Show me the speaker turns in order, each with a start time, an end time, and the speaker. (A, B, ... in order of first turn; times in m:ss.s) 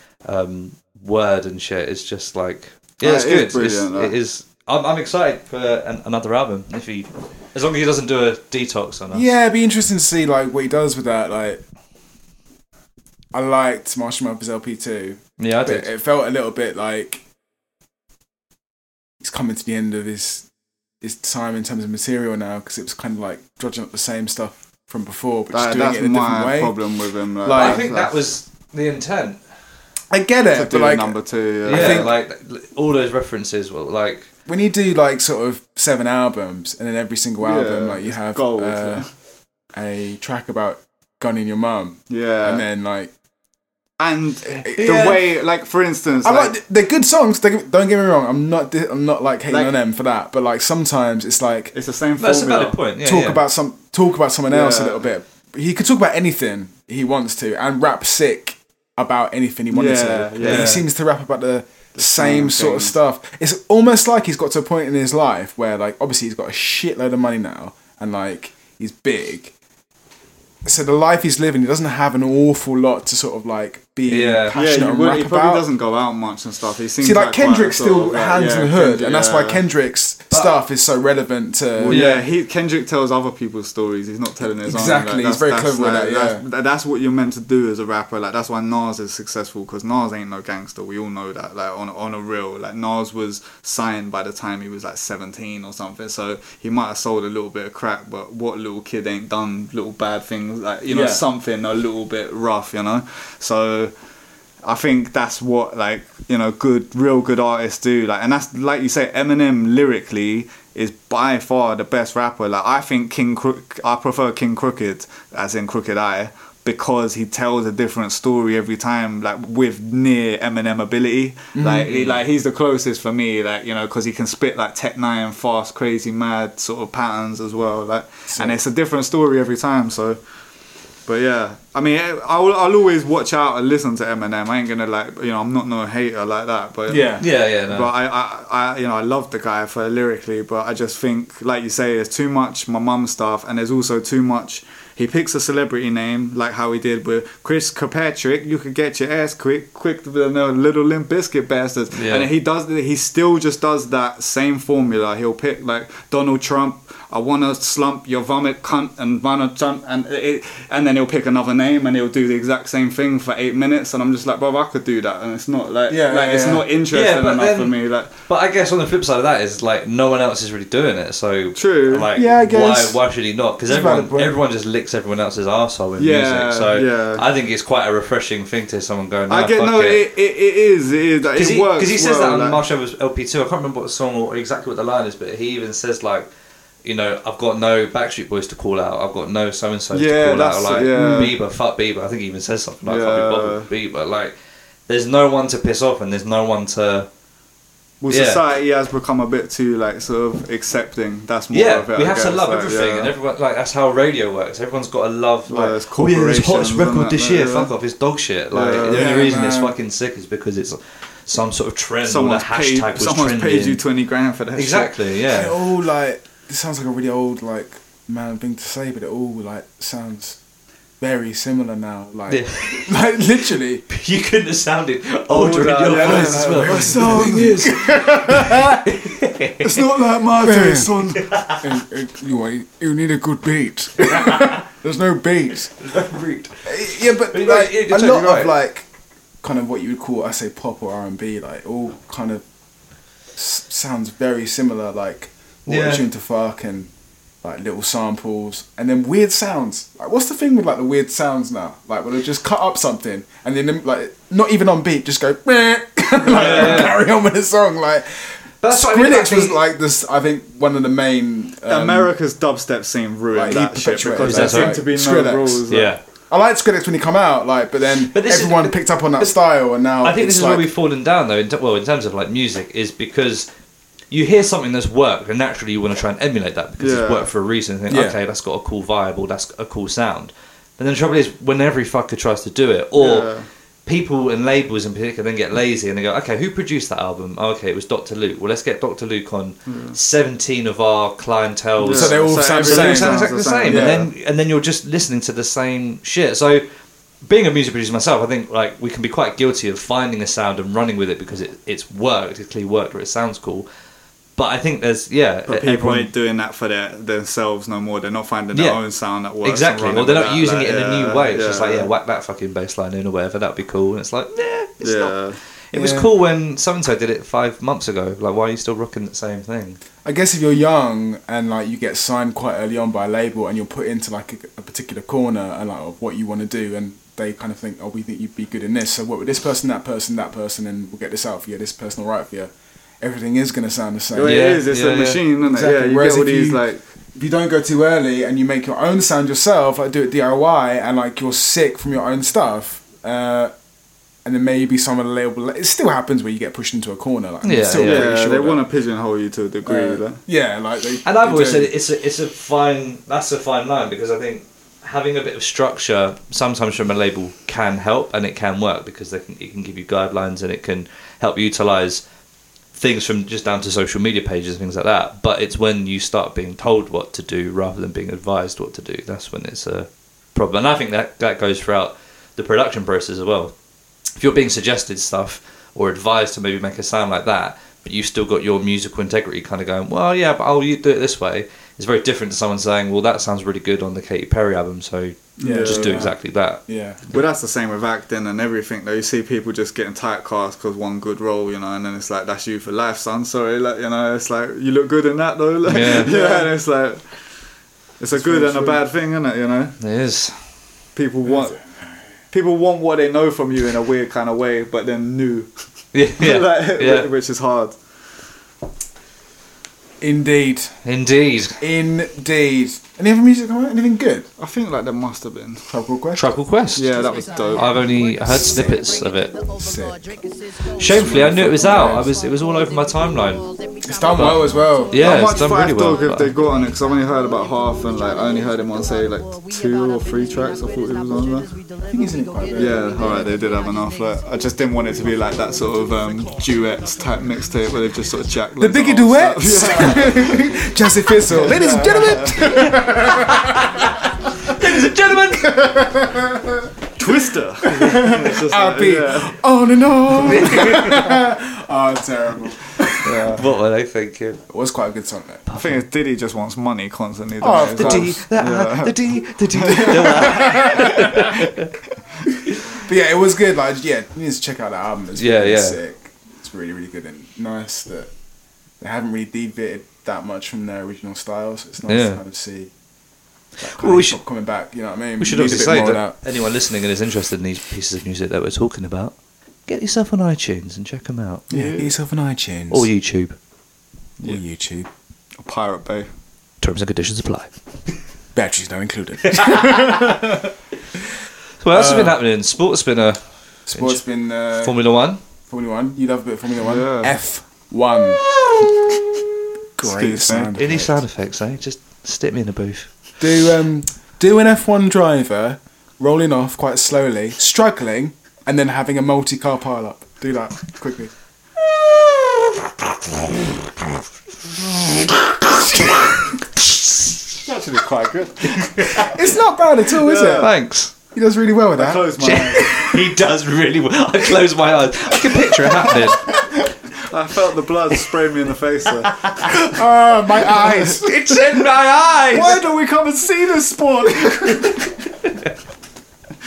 0:00.3-0:09.3 A
0:03.0-0:04.2 B
0:09.1-0:11.6 C
0:13.3-0:17.2 C
0:15.4-0:15.9 A
0:19.2-0:20.5 C
0:21.0-0:26.8 C
0:25.5-0:28.2 B
0:27.4-0:27.9 C
0:27.5-0:29.4 A
0:30.1-0:32.1 C
0:30.5-0:32.1 B
0:31.7-0:34.3 A
0:34.5-0:39.1 C
0:37.4-0:39.1 B
0:39.7-0:43.1 C
0:42.1-0:42.6 B
0:44.0-0:46.6 B
0:44.7-0:45.2 C
0:44.8-0:45.2 A
0:46.2-0:51.7 C
0:49.5-0:49.7 B
0:51.7-0:52.8 B
0:52.2-0:53.4 A
0:53.0-1:09.5 C
0:54.5-0:55.0 B
0:59.7-1:00.9 B
1:00.4-1:00.8 A
1:02.0-1:02.9 B
1:10.6-1:15.7 C
1:14.1-1:14.6 A
1:14.5-1:19.6 B
1:17.0-1:22.0 C
1:21.8-1:43.9 B
1:21.9-1:22.2 A
1:24.6-1:26.4 C
1:40.9-1:41.2 C
1:44.6-2:10.2 B
2:01.6-2:02.1 C
2:08.3-2:08.6 C
2:11.1-2:17.2 B
2:16.9-2:17.2 C
2:17.2-2:17.9 A
2:17.7-2:48.1 B
2:31.9-2:32.3 A
2:45.9-2:46.7 C
2:46.9-3:00.0 A
2:51.6-2:52.1 B
2:52.2-2:53.0 C
2:53.7-2:54.4 C
2:56.0-2:57.2 B
2:59.3-3:02.6 B
3:01.4-3:06.3 A
3:06.8-3:14.4 A
3:09.9-3:11.4 B
3:11.0-3:11.3 C
3:12.8-3:13.7 B
3:14.9-3:17.1 A
3:18.0-3:23.1 B
3:18.1-3:18.4 A
3:21.5-3:33.8 A
3:25.5-3:27.7 B
3:28.5-3:29.3 B
3:28.9-3:29.8 C
3:32.0-3:35.0 B
3:34.6-3:35.6 A
3:35.3-3:40.4 C
3:41.0-3:43.8 C
3:42.3-3:42.9 A
3:43.9-3:49.8 A
3:45.3-3:47.6 B
3:45.9-3:48.8 C
3:49.6-3:51.3 B
3:50.3-3:51.0 C
3:51.2-3:51.6 A
3:51.6-3:55.8 C
3:54.2-3:54.5 A
3:55.8-3:56.6 A
3:56.6-3:58.9 C
3:57.3-3:58.5 A
3:59.4-4:02.4 C
4:03.4-4:06.9 C
4:05.7-4:06.1 A
4:07.4-4:22.1 C
4:16.3-4:17.0 A
4:18.6-4:19.6 A
4:21.7-4:26.0 B
4:23.3-4:25.7 C
4:24.2-4:24.8 A
4:25.7-4:26.0 A
4:26.3-4:30.7 C
4:28.1-4:29.4 A
4:30.0-4:33.5 A
4:34.1-4:43.3 A
4:36.8-4:37.3 B
4:37.9-4:38.2 C
4:43.0-4:43.5 B
4:43.9-4:56.7 A
4:49.7-4:50.0 B
4:51.8-4:54.1 B
4:51.8-4:54.1 C
4:57.2-5:03.7 A
5:04.4-5:06.1 A
5:05.5-5:11.9 B
5:08.5-5:08.8 A
5:09.4-5:15.2 A
5:14.8-5:15.4 B
5:15.7-5:19.8 A
5:15.7-5:16.1 C
5:20.0-5:34.6 C
5:34.2-5:36.8 B
5:34.2-5:35.2 A
5:35.4-5:36.6 C
5:37.2-5:43.5 C
5:44.2-5:48.6 C
5:47.4-5:48.1 A
5:47.8-5:50.2 B
5:49.6-5:51.7 C
5:51.0-6:02.0 A
6:02.7-6:13.5 A
6:14.2-6:26.6 A
6:25.4-6:27.0 C
6:25.4-6:26.1 B
6:27.1-6:37.0 B
6:35.7-6:36.1 A
6:36.0-6:36.5 C
6:38.0-6:39.8 B
6:38.1-6:38.8 C
6:39.8-6:40.4 A
6:41.0-6:41.6 B
6:42.3-6:45.5 B
6:45.9-6:47.1 A
6:46.2-6:47.8 B
6:50.0-6:50.7 C
6:50.8-6:51.6 A
6:51.6-6:54.3 C
6:54.4-6:55.7 B
6:55.7-6:56.4 C
6:56.2-6:57.0 A
6:56.8-6:57.7 B
6:57.5-6:59.4 A
6:58.3-6:58.9 C
6:59.5-7:00.2 C
7:00.8-7:03.4 A
7:00.8-7:02.2 C
7:03.8-7:05.1 C
7:04.1-7:06.4 A
7:04.9-7:11.5 B
7:11.8-7:13.3 C
7:12.6-7:20.7 B
7:18.6-7:23.8 C
7:21.4-7:22.7 B
7:22.6-7:23.6 A
7:24.5-7:25.5 A
7:24.5-7:26.7 C
7:27.0-7:29.4 B
7:27.6-7:33.3 C
7:27.7-7:28.1 A
7:30.2-7:31.1 A
7:33.0-7:33.4 B
7:33.3-7:34.4 A
7:34.5-7:35.4 C
7:35.5-7:35.8 A
7:35.6-7:40.4 B
7:37.4-7:38.2 C
7:37.4-7:41.7 A
7:39.8-7:41.3 C
7:42.8-7:48.1 C
7:45.2-7:45.8 A
7:48.8-7:52.7 C
7:51.9-7:52.2 A
7:53.6-7:56.2 C
7:53.6-7:54.2 A
7:55.2-7:59.2 A
7:59.7-8:01.5 A
8:01.5-8:01.9 B
8:01.5-8:02.9 C
8:02.7-8:03.4 A
8:04.2-8:04.9 C
8:05.4-8:06.1 B
8:06.6-8:07.5 A
8:08.4-8:10.5 C
8:09.4-8:10.1 A
8:11.6-8:13.2 A
8:11.7-8:12.2 C
8:13.7-8:14.8 C
8:13.7-8:15.2 A
8:15.5-8:18.2 C
8:16.6-8:17.2 B
8:19.8-8:21.0 C
8:19.8-8:20.6 B
8:20.6-8:22.9 A
8:23.2-8:31.1 C
8:34.9-8:35.6 C
8:36.6-8:37.2 A
8:37.4-8:39.1 B
8:38.8-8:39.1 A
8:39.0-8:42.4 C
8:40.0-8:40.5 B
8:40.4-8:40.9 A
8:41.8-8:42.7 B
8:42.2-8:46.3 A
8:47.1-8:49.2 B
8:49.2-8:49.5 A
8:49.5-8:51.4 C
8:51.0-8:52.6 A
8:52.3-8:54.8 B
8:52.3-8:52.7 C
8:54.0-8:54.6 C